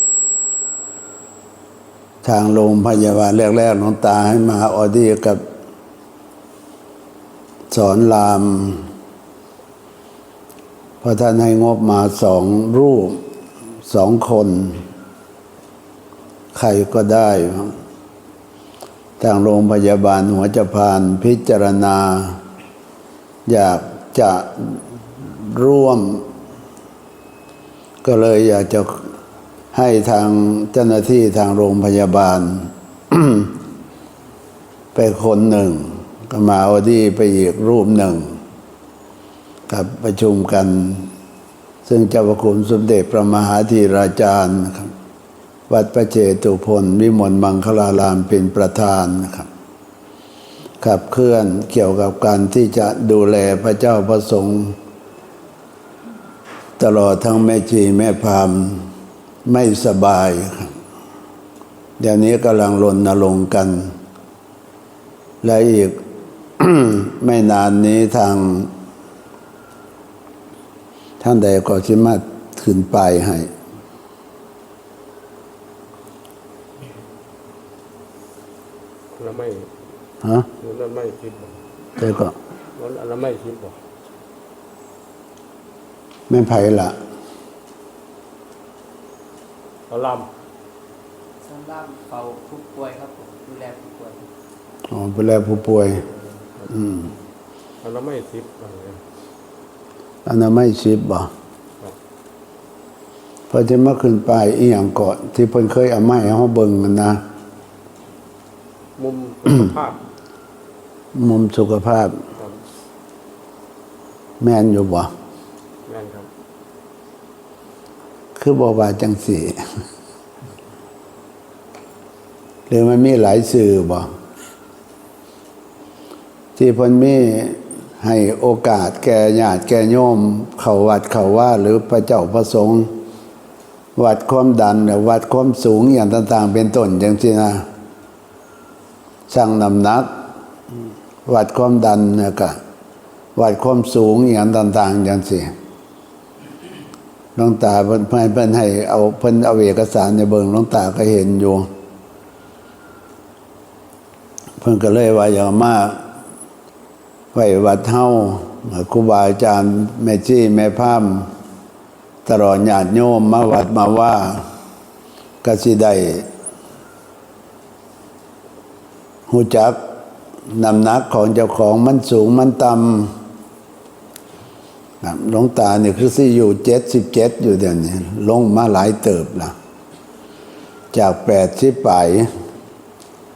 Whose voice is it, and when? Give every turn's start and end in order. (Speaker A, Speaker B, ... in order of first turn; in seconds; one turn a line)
Speaker A: 2.2-5.4
Speaker A: 7.7-8.8
Speaker A: 11.0-13.2
Speaker A: 13.8-14.8
Speaker A: 16.5-17.7
Speaker A: 19.2-22.4
Speaker A: 23.5-24.8
Speaker A: 25.4-26.2
Speaker A: 28.0-29.0
Speaker A: 29.7-33.5
Speaker A: 34.9-38.3
Speaker A: 39.7-41.1
Speaker A: 41.8-44.9
Speaker A: 45.7-49.5
Speaker A: 50.8-54.7
Speaker A: 56.8-58.9
Speaker A: 59.5-60.7
Speaker A: 62.0-63.9
Speaker A: 65.4-66.0
Speaker A: 66.6-68.7
Speaker A: 71.2-73.5
Speaker B: 79.1-79.7
Speaker B: 80.6-81.6
Speaker A: 82.0-82.3
Speaker B: 82.7-83.8
Speaker A: 86.3-87.0
Speaker B: 89.9-90.3
Speaker C: 91.4-94.3
Speaker A: 94.9-96.0
Speaker A: 96.7-97.1
Speaker B: 97.8-99.0
Speaker A: 100.2-101.3
Speaker A: 103.5-107.2
Speaker B: 109.0-110.0
Speaker A: 111.1-112.2
Speaker A: 114.4-115.1
Speaker B: 115.8-116.3
Speaker A: 118.4-119.6
Speaker A: 122.7-124.1
Speaker A: 126.5-132.9
Speaker A: 133.9-137.6
Speaker A: 139.3-140.1
Speaker A: 141.2-142.6
Speaker A: 143.3-145.5
Speaker A: 147.3-151.7
Speaker A: 154.6-156.0
Speaker A: 157.3-161.3
Speaker A: 162.2-164.4
Speaker A: 165.4-166.2
Speaker A: 169.3-169.8
Speaker A: 170.5-173.1
Speaker A: 175.0-179.5
Speaker A: 180.9-182.3